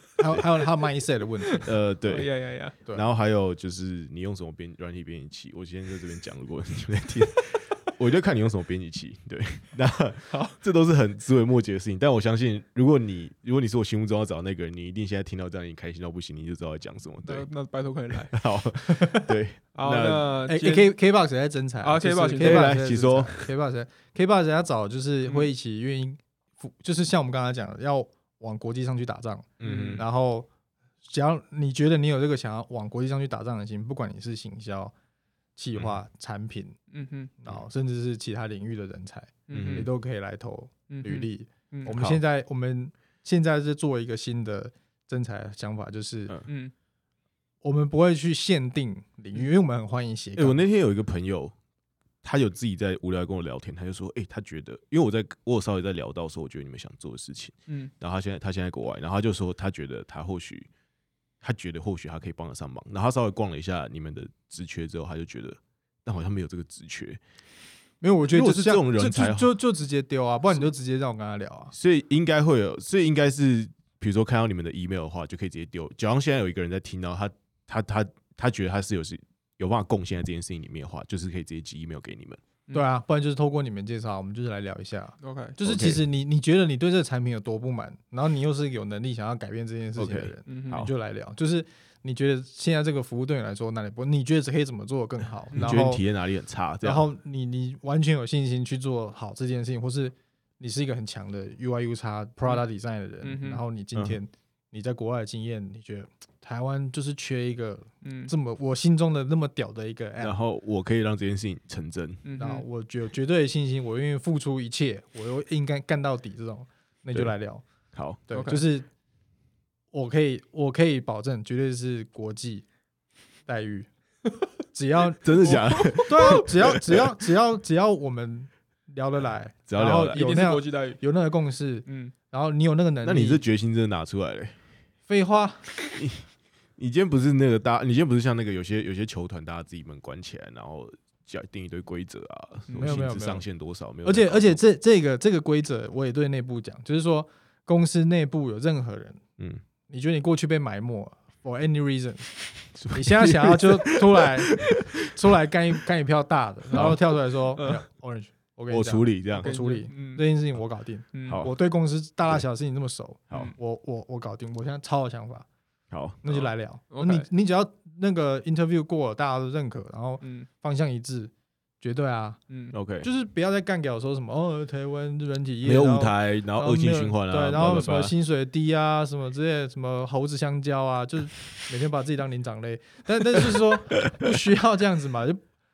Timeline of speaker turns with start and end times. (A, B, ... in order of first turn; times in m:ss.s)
0:00.2-0:01.7 A
0:01.5-0:02.7 B
0:01.6-0:02.3 C
0:02.9-0:17.5 C
0:10.3-0:10.6 B
0:17.2-0:18.3 B
0:18.3-0:20.3 C
0:19.0-0:19.2 A
0:19.7-0:20.9 B
0:20.5-0:30.5 A
0:21.8-0:22.7 B
0:22.4-0:23.5 C
0:29.6-0:30.0 C
0:29.6-0:30.0 B
0:31.0-0:34.9 A
0:35.6-0:36.8 A
0:36.9-0:37.3 B
0:37.4-0:46.4 A
0:39.5-0:39.9 B
0:39.5-0:39.9 C
0:40.9-0:42.0 B
0:41.9-0:42.2 C
0:46.5-0:46.7 B
0:47.6-0:50.6 A
0:50.4-0:51.5 C
0:52.2-1:00.7 C
1:01.4-1:07.2 C
1:08.0-1:11.7 A
1:08.3-1:09.6 C
1:11.7-1:22.4 C
1:22.7-1:36.0 A
1:25.2-1:25.6 B
1:25.6-1:26.0 C
1:30.0-1:30.9 C
1:30.5-1:30.8 B
1:35.5-1:35.8 B
1:35.6-1:37.0 C
1:36.8-1:50.4 A
1:43.2-1:43.6 B
1:43.9-1:44.2 C
1:48.0-1:48.3 B
1:50.2-1:52.2 C
1:52.2-1:52.6 B
1:52.4-1:57.6 A
1:57.9-1:58.2 C
1:58.3-1:58.9 A
1:58.3-1:58.6 B
1:59.9-2:02.6 A
2:03.5-2:03.9 A
2:04.7-2:13.4 A
2:05.2-2:07.2 C
2:05.4-2:06.4 B
2:09.7-2:10.2 C
2:10.1-2:11.0 B
2:11.8-2:12.1 B
2:13.0-2:14.6 C
2:15.1-2:15.7 A
2:15.9-2:24.6 C
2:22.7-2:23.0 B
2:22.8-2:23.4 A
2:24.0-2:29.2 A
2:29.9-2:45.4 A
2:32.8-2:35.1 C
2:36.7-2:37.0 C
2:37.6-2:37.8 B
2:38.7-2:39.5 C
2:39.4-2:40.2 B
2:41.1-2:41.4 B
2:41.3-2:41.5 C
2:45.9-2:46.4 C
2:46.2-2:52.4 A
2:46.3-2:47.3 B
2:50.2-2:50.5 B
2:52.5-2:52.8 B
2:52.7-2:53.1 C
2:53.0-3:05.4 A
2:55.6-2:58.1 C